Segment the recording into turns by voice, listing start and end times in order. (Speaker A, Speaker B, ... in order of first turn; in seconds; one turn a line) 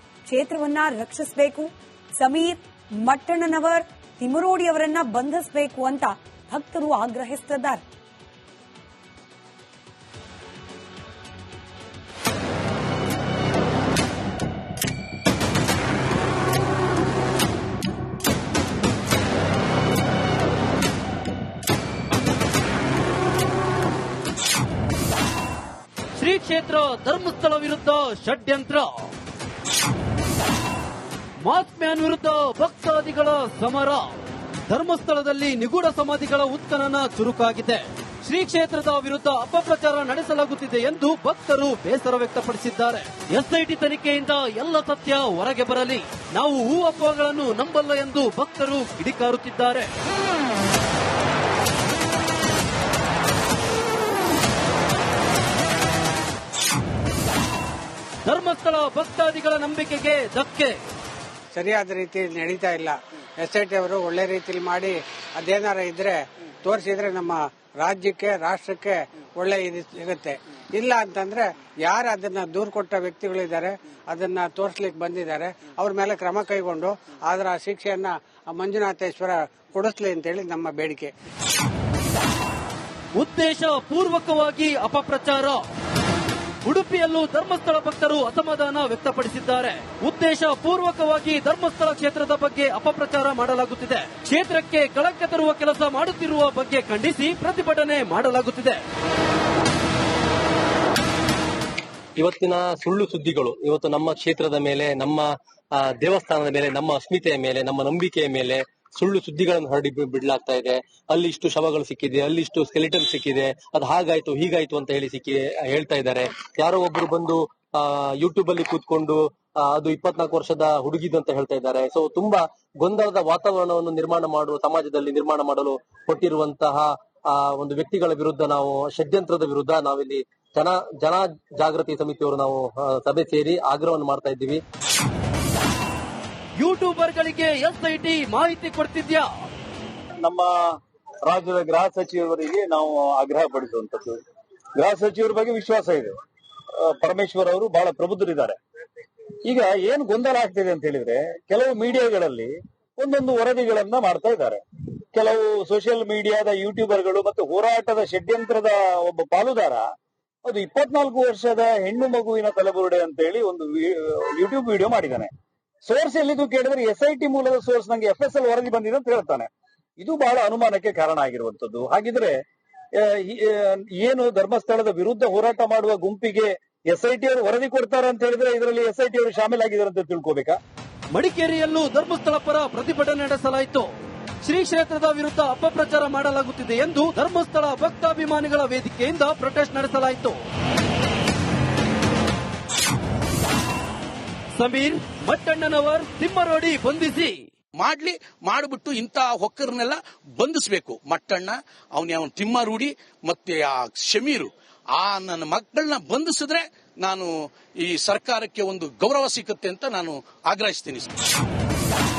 Speaker A: 0.3-7.8
Speaker B: 26.2-29.1
Speaker B: 31.4-34.2
Speaker B: 34.7-49.9
Speaker B: 58.2-60.8
Speaker C: 61.5-81.1
Speaker B: 83.2-85.6
Speaker B: 86.6-98.8
Speaker D: 102.2-134.6
Speaker B: 136.6-139.3
Speaker E: 140.2-140.5
Speaker E: 141.3-144.2
Speaker E: 144.8-146.1
Speaker E: 146.8-148.6
Speaker E: 149.4-154.6
Speaker E: 155.1-159.8
Speaker E: 160.4-165.3
Speaker E: 165.8-169.5
Speaker E: 170.0-172.3
Speaker E: 173.0-180.6
Speaker B: 181.1-183.9
Speaker B: 184.4-190.4
Speaker B: 194.6-197.3
Speaker F: 197.8-211.2